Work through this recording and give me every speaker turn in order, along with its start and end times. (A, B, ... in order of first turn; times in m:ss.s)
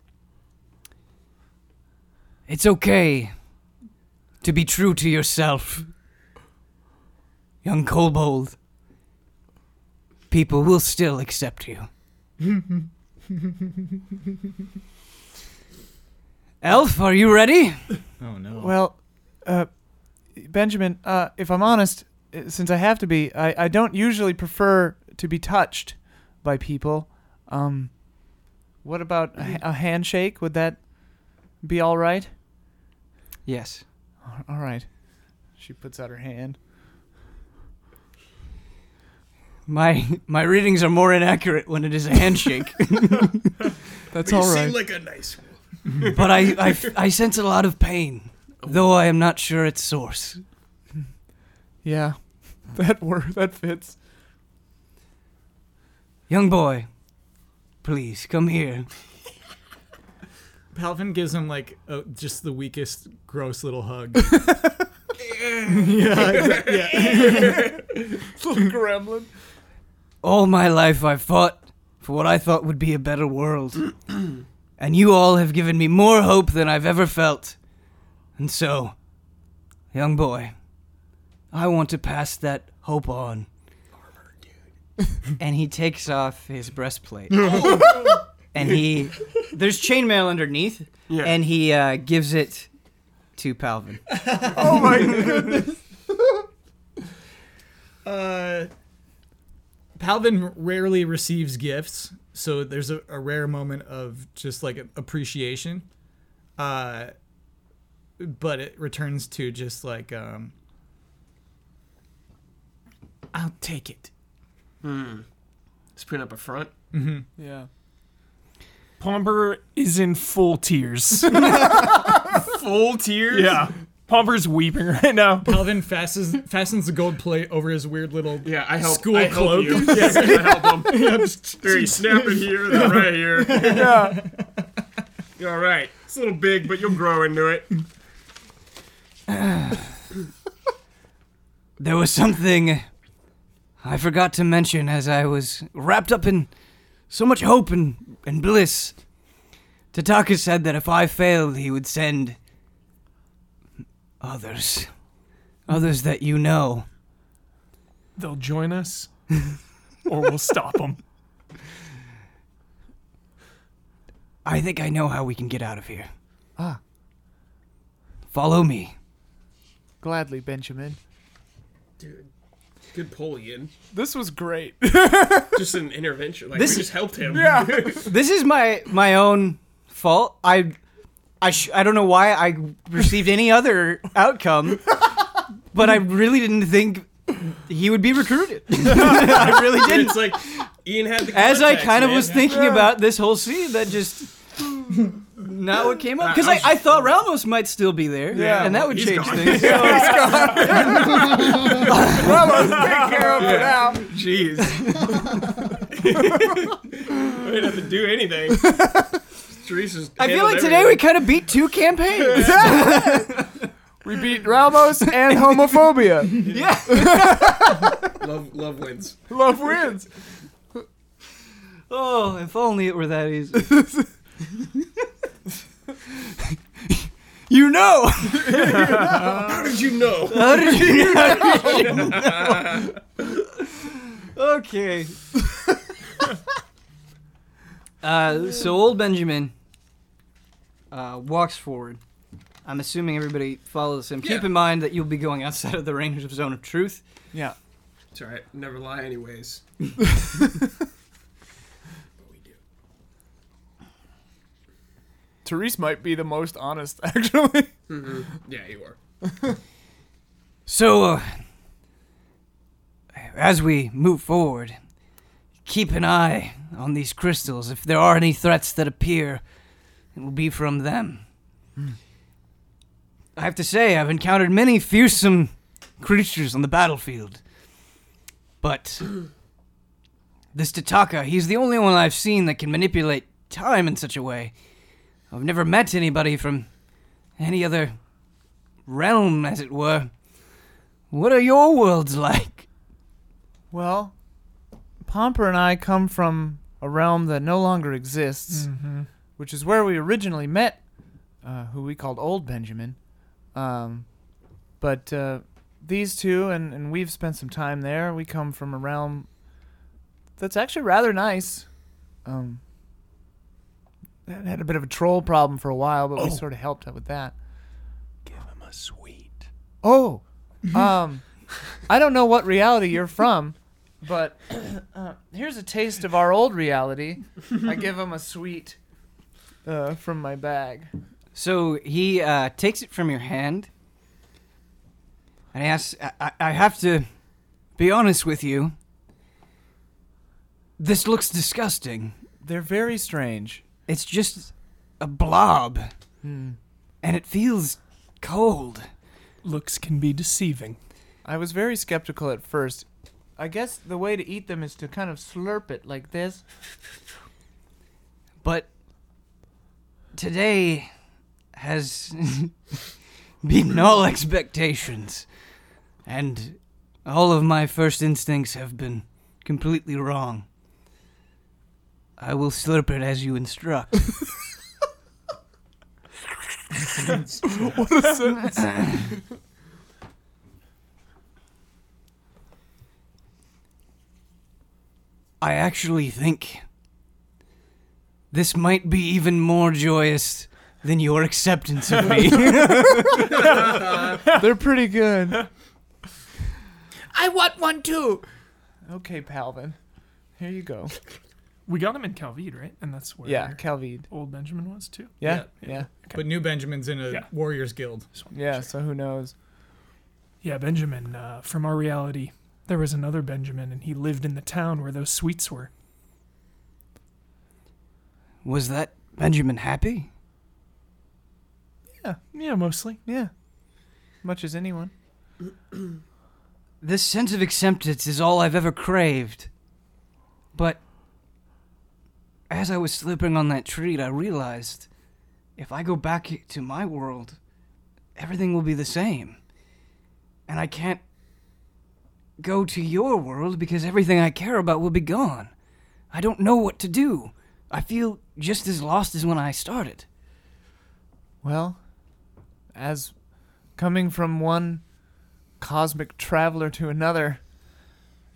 0:02.5-0:03.3 A
0:04.4-0:05.9 A
0:07.6-0:08.6 A
0:10.3-0:11.9 A
0:16.6-0:17.9 A
0:18.2-0:18.8 B
0:18.6-0:19.7 C
0:20.2-0:32.3 C
0:33.5-0:33.8 A
0:34.2-0:34.9 C
0:35.6-0:36.6 C
0:39.7-0:43.5 A
0:44.1-0:44.8 C
0:44.2-0:46.9 D
0:46.1-0:50.4 A
0:48.6-0:48.9 D
0:51.8-0:54.0 C
0:56.3-0:56.9 A
0:57.8-0:58.9 A
1:00.7-1:04.4 B
1:04.3-1:04.6 C
1:05.2-1:08.1 D
1:05.6-1:07.7 B
1:06.2-1:09.3 C
1:10.2-1:14.0 A
1:14.8-1:17.6 A
1:18.4-1:19.0 A
1:19.9-1:20.5 A
1:21.5-1:23.5 A
1:25.4-1:27.8 A
1:28.5-1:32.7 A
1:31.1-1:31.4 D
1:33.4-1:34.0 A
1:34.1-1:35.7 B
1:34.5-1:35.8 C
1:38.0-1:38.7 B
1:40.0-1:45.9 B
1:46.6-1:47.1 B
1:48.2-1:50.5 B
1:53.3-1:54.1 B
1:54.8-1:55.2 D
1:56.0-1:56.7 D
1:56.9-1:57.3 B
1:57.4-1:57.7 C
1:59.0-2:01.7 E
2:01.5-2:03.7 D
2:03.3-2:05.6 E
2:05.4-2:14.6 B
2:08.4-2:11.1 D
2:09.7-2:10.9 E
2:11.6-2:14.0 D
2:13.7-2:14.2 C
2:15.4-2:17.7 D
2:19.3-2:19.8 A
2:21.8-2:22.9 A
2:23.8-2:26.5 A
2:27.1-2:29.0 A
2:29.9-2:32.4 A
2:34.2-2:34.9 A
2:35.7-2:36.9 A
2:38.2-2:39.3 E
2:40.0-2:41.0 E
2:44.4-2:46.1 A
2:48.3-2:49.0 A
2:50.0-2:51.0 C
2:52.0-2:52.3 D
2:52.9-2:53.7 D
2:53.9-2:55.8 C
2:55.5-2:58.1 D
2:56.5-2:57.1 A
2:57.3-2:58.1 C
2:57.7-3:00.7 A
3:01.4-3:05.0 A
3:05.7-3:10.7 A
3:09.0-3:12.5 D
3:11.3-3:14.4 A
3:12.4-3:13.0 C
3:15.2-3:21.0 A
3:16.2-3:17.1 D
3:18.3-3:24.1 C
3:18.3-3:28.9 D
3:21.9-3:22.5 A
3:22.8-3:23.6 E
3:28.6-3:29.2 C
3:29.5-3:31.0 D
3:30.2-3:33.7 A
3:32.3-3:33.3 C
3:34.0-3:38.0 C
3:35.0-3:37.8 A
3:38.2-3:39.2 D
3:39.3-3:40.1 C
3:41.9-3:43.8 A
3:46.1-3:49.1 A
3:48.4-3:53.0 D
3:50.3-3:53.0 A
3:53.6-3:55.2 A
3:58.0-3:59.5 A
4:00.9-4:02.0 A
4:02.6-4:07.0 A
4:08.1-4:09.6 D
4:12.2-4:12.6 D
4:15.4-4:17.7 C
4:17.9-4:19.0 D
4:20.7-4:21.4 A
4:23.1-4:24.8 A
4:25.6-4:29.4 A
4:30.2-4:31.2 A
4:33.4-4:37.4 A
4:38.6-4:39.2 A
4:40.5-4:44.5 A
4:45.3-4:46.7 A
4:47.4-4:48.0 A
4:48.9-4:50.1 A
4:51.1-4:52.7 A
4:53.7-4:54.2 C
4:55.0-4:58.7 C
4:58.5-4:59.1 E
4:59.4-5:00.8 C
5:01.4-5:03.0 C
5:03.5-5:04.2 C
5:04.8-5:09.3 C
5:10.4-5:11.7 C
5:12.2-5:12.6 C
5:14.3-5:17.3 C
5:16.2-5:16.4 E
5:18.2-5:19.5 E
5:19.8-5:28.8 C
5:29.6-5:30.9 C
5:31.4-5:33.7 A
5:35.5-5:37.1 A
5:37.8-5:38.7 A
5:40.8-5:42.2 A
5:42.4-5:43.6 C
5:43.9-5:45.9 A
5:46.2-5:46.6 C
5:47.0-5:48.9 A
5:49.4-5:50.8 E
5:51.2-5:52.9 C
5:53.4-5:56.4 C
5:58.4-5:58.7 A
6:00.1-6:00.9 A
6:01.5-6:02.6 A
6:03.4-6:05.3 A
6:06.1-6:10.5 A
6:12.2-6:14.2 A
6:17.5-6:18.7 C
6:18.5-6:19.0 A
6:25.4-6:26.6 A
6:28.3-6:33.5 A
6:32.6-6:33.6 C
6:33.8-6:34.4 E
6:34.3-6:35.4 C
6:37.1-6:38.2 B
6:38.8-6:39.8 C
6:40.4-6:40.9 C
6:41.7-6:46.3 E
6:43.2-6:44.1 C
6:45.2-6:45.9 C
6:45.2-6:45.5 B
6:46.1-6:48.1 B
6:48.2-6:48.6 E
6:48.3-6:49.3 C
6:50.4-6:55.7 E
6:58.4-7:00.1 A
7:02.3-7:03.0 E
7:03.1-7:03.3 C
7:04.2-7:04.9 C
7:06.8-7:09.5 A
7:10.5-7:10.8 A
7:12.5-7:14.9 A
7:15.6-7:17.4 A
7:18.2-7:19.4 A
7:20.5-7:21.0 A
7:22.4-7:25.5 A
7:26.1-7:30.1 A
7:31.4-7:31.8 C
7:32.7-7:34.9 C
7:35.6-7:37.5 C